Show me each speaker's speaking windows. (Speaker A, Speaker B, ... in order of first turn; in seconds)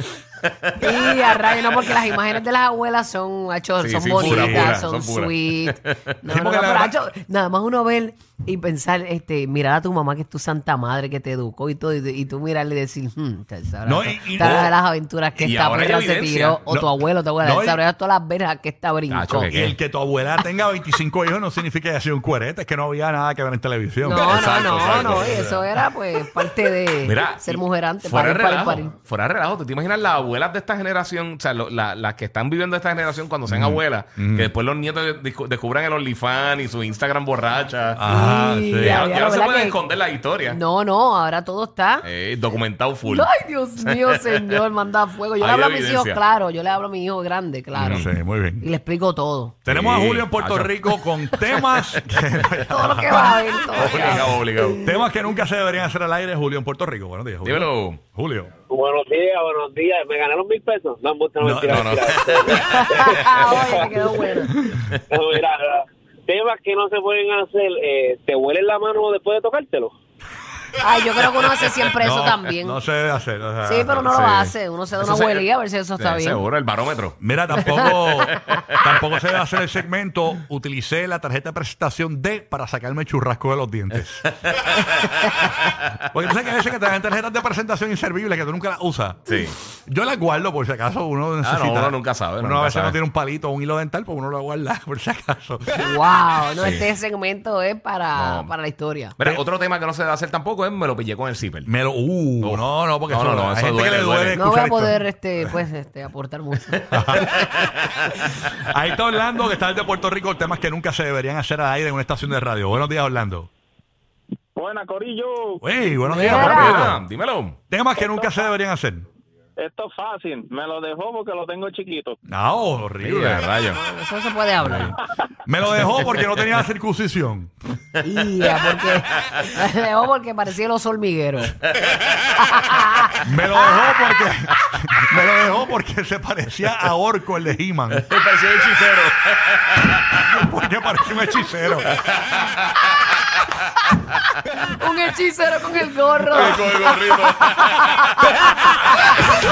Speaker A: 0.4-1.1, 3.8-6.0, 15.4-16.6, 19.1-19.8, 24.2-25.7, 27.0-38.0, 38.8-40.6, 42.0-44.6, 45.4-46.2, 47.7-48.1, 49.6-50.9, 53.1-54.8, 57.4-58.0, 61.7-63.6, 74.0-75.5, 76.0-78.1, 84.4-85.9, 89.2-89.5, 91.4-93.0, 96.6-96.8, 98.1-98.5, 99.2-101.7, 102.4-104.4, 107.2-108.1, 116.2-117.6, 123.0-123.8, 126.0-126.2, 131.8-132.3, 137.9-140.4, 141.9-143.9, 146.2-148.5
Speaker B: 0.8-19.5, 24.0-28.9, 38.0-39.8, 40.5-42.0, 43.1-49.5, 52.7-55.1, 62.5-64.5, 70.8-72.8, 73.6-76.4, 77.7-78.6, 95.8-99.2, 104.3-107.5, 116.1-117.0, 123.7-125.0, 128.0-131.6, 132.4-133.9, 144.6-149.2
Speaker C: 4.1-4.8, 6.2-6.9, 13.8-14.7, 16.7-17.8, 19.5-24.4, 33.5-34.5, 38.0-39.0, 47.8-48.7, 49.7-58.5, 61.4-62.0, 72.0-74.1, 77.2-84.3, 86.1-89.3, 89.9-96.0, 101.7-105.5, 106.9-107.5, 108.2-113.5, 115.6-117.0, 117.7-119.1, 122.3-123.5, 124.6-127.5, 133.2-138.1, 140.2-142.0
Speaker D: 58.7-64.3, 64.8-69.9
Speaker E: 114.5-115.6, 119.6-122.2